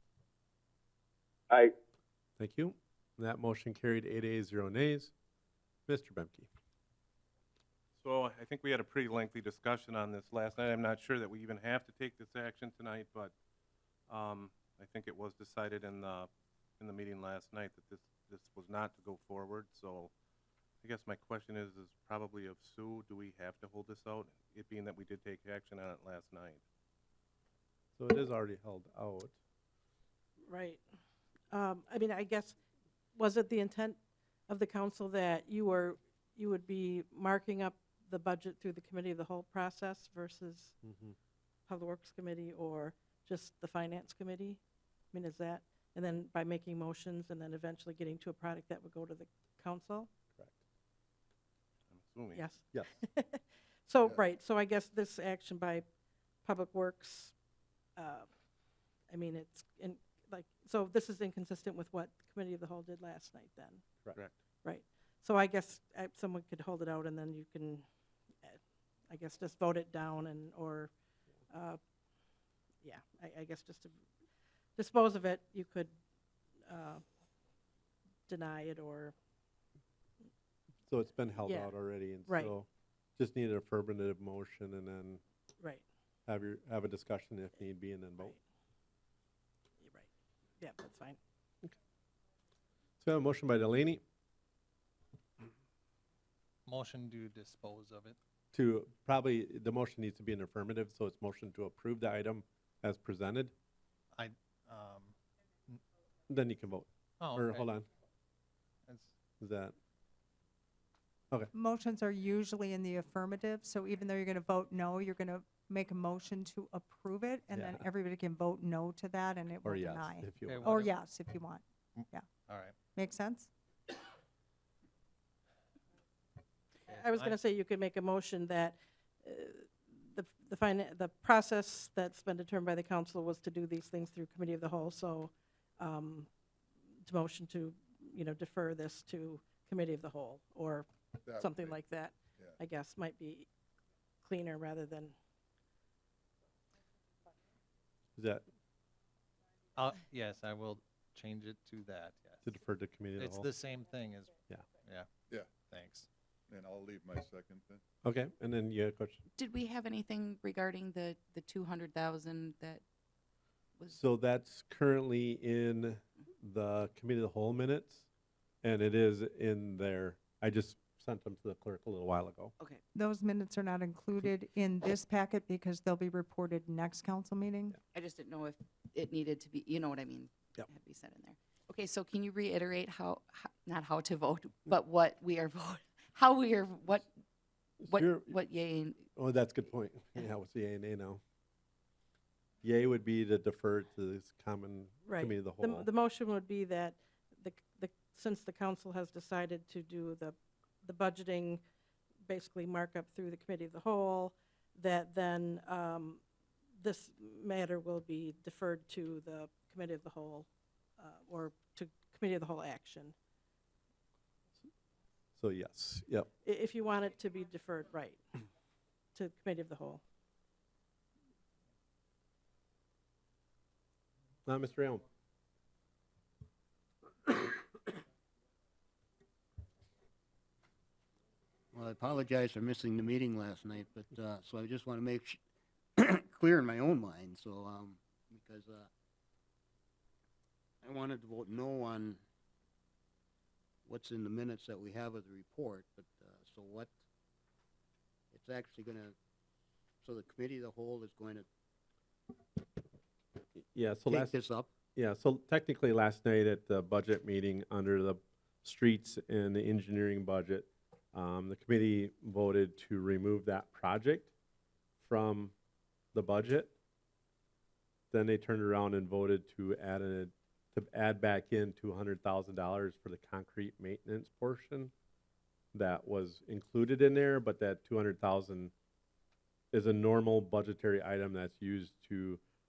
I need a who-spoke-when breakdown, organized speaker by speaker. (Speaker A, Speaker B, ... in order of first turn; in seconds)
Speaker A: 2.4-5.1, 5.9-6.5, 28.0-29.3, 40.8-41.1, 52.7-53.0, 80.9-85.2, 86.2-88.3, 93.0-94.0, 98.5-103.5, 106.3-107.8, 109.4-109.7, 117.5-117.9, 119.6-120.7, 148.2-148.4, 152.4-153.5, 158.0-159.2, 164.0-168.0, 168.6-172.5, 187.8-188.4, 189.1-191.2, 192.6-195.9, 215.4-216.3, 224.4-225.0, 253.6-254.4, 254.9-264.3, 265.0-265.5, 266.1-266.7, 268.1-274.9, 275.7-278.7, 279.7-282.4
Speaker B: 8.0-13.3, 14.1-20.1, 20.8-26.6, 51.9-52.4
Speaker C: 30.4-30.8, 31.5-32.5, 33.1-34.0, 34.5-40.7, 41.7-44.6, 45.1-50.1, 52.3-55.8, 56.4-57.3, 58.0-58.3, 59.1-63.8, 64.6-67.8, 69.1-70.9, 71.5-71.8, 72.8-74.0, 74.8-75.9, 76.7-77.0, 78.3-79.1, 81.4-81.7, 82.2-82.5, 89.8-90.1, 90.6-91.2, 126.9-136.3, 137.0-140.9, 141.4-143.5, 144.2-145.1, 195.0-201.6, 202.2-206.2, 206.8-213.1, 216.4-218.2, 219.1-220.0
Speaker D: 96.7-98.2, 104.1-105.1, 107.2-107.8, 108.9-109.1, 120.4-121.0, 122.0-122.7, 126.9-127.3, 149.8-152.4, 153.2-156.1
Speaker E: 111.5-122.3, 122.9-123.5, 172.9-177.8
Speaker F: 141.2-141.8, 156.5-157.8
Speaker G: 159.4-162.8, 177.9-187.1, 187.8-189.0
Speaker H: 231.7-235.4, 236.0-238.9, 240.8-242.2, 243.8-247.0, 248.3-249.1, 250.0-251.4, 254.1-254.7